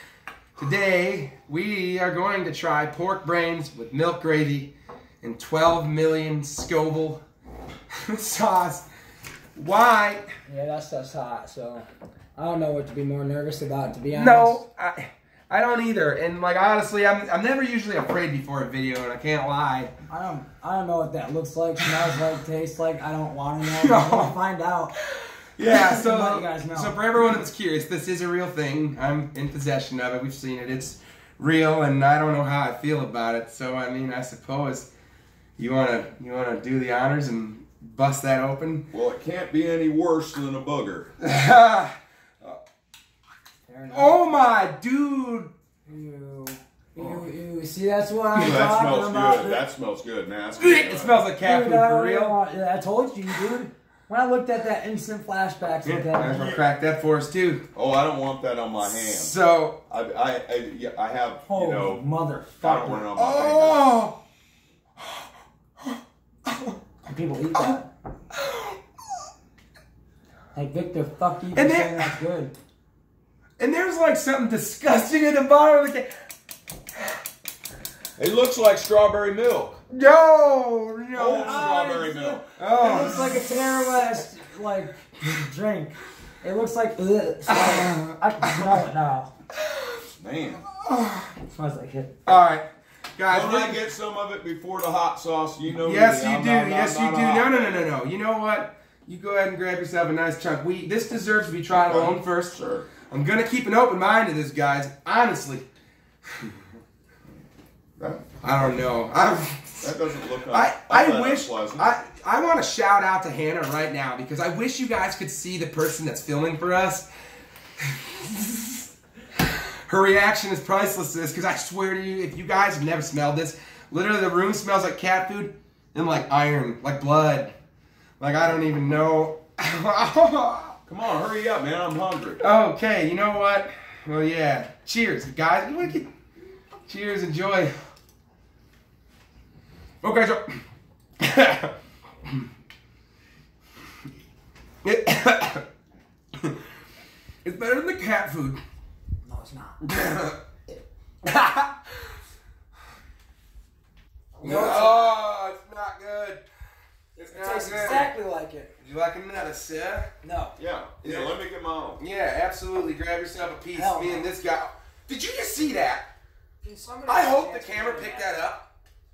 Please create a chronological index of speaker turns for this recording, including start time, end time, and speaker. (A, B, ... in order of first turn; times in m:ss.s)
0:00.6-0:07.2 A
0:08.1-0:08.9 A
0:09.6-0:10.2 A
0:10.5-0:14.6 B
0:14.1-0:19.9 A
0:20.1-0:24.9 B
0:23.7-0:24.3 A
0:25.2-0:34.9 A
0:25.6-0:27.0 B
0:35.6-0:38.9 A
0:38.9-0:41.1 C
0:41.2-0:42.6 A
0:43.7-0:44.5 B
0:43.9-0:45.5 A
0:45.9-0:49.6 B
0:47.0-0:47.3 A
0:48.4-0:51.2 C
0:50.6-0:52.4 A
0:51.4-0:56.4 B
0:55.8-0:57.6 A
0:56.3-0:56.6 C
0:57.8-0:59.4 C
0:58.9-0:59.8 A
0:59.9-1:02.0 C
1:01.5-1:03.1 B
1:02.6-1:03.9 C
1:03.2-1:04.2 A
1:05.0-1:06.8 A
1:07.1-1:07.9 B
1:08.3-1:08.8 A
1:10.6-1:12.5 B
1:11.6-1:12.1 A
1:13.6-1:16.1 A
1:18.2-1:19.8 C
1:19.9-1:21.7 A
1:21.1-1:22.5 C
1:21.2-1:29.3 B
1:22.6-1:24.0 A
1:27.5-1:28.8 A
1:30.2-1:30.6 C
1:30.8-1:31.3 A
1:31.5-1:32.1 B
1:32.3-1:33.8 A
1:33.3-1:37.9 C
1:35.8-1:42.6 A
1:41.7-1:42.9 C
1:43.1-1:45.7 A
1:48.0-1:48.4 C
1:48.4-1:57.1 A
1:49.8-1:51.9 C
1:57.8-1:58.8 A
1:59.5-2:07.5 A
2:08.2-2:10.8 A
2:10.9-2:12.4 C
2:12.4-2:16.1 A
2:16.9-2:17.8 A
2:20.0-2:20.6 A
2:21.2-2:21.7 A
2:24.8-2:25.6 A
2:27.4-2:28.6 A
2:29.3-2:29.8 B
2:29.8-2:30.4 A
2:31.2-2:32.1 A
2:34.4-2:35.2 B
2:34.4-2:36.4 A
2:37.2-2:38.1 A
2:37.3-2:38.7 B
2:38.8-2:40.1 A
2:40.2-2:40.6 B
2:40.6-2:42.0 C
2:41.0-2:41.4 A
2:42.0-2:46.1 A
2:43.7-2:44.3 B
2:46.6-2:48.5 B
2:47.1-2:48.7 A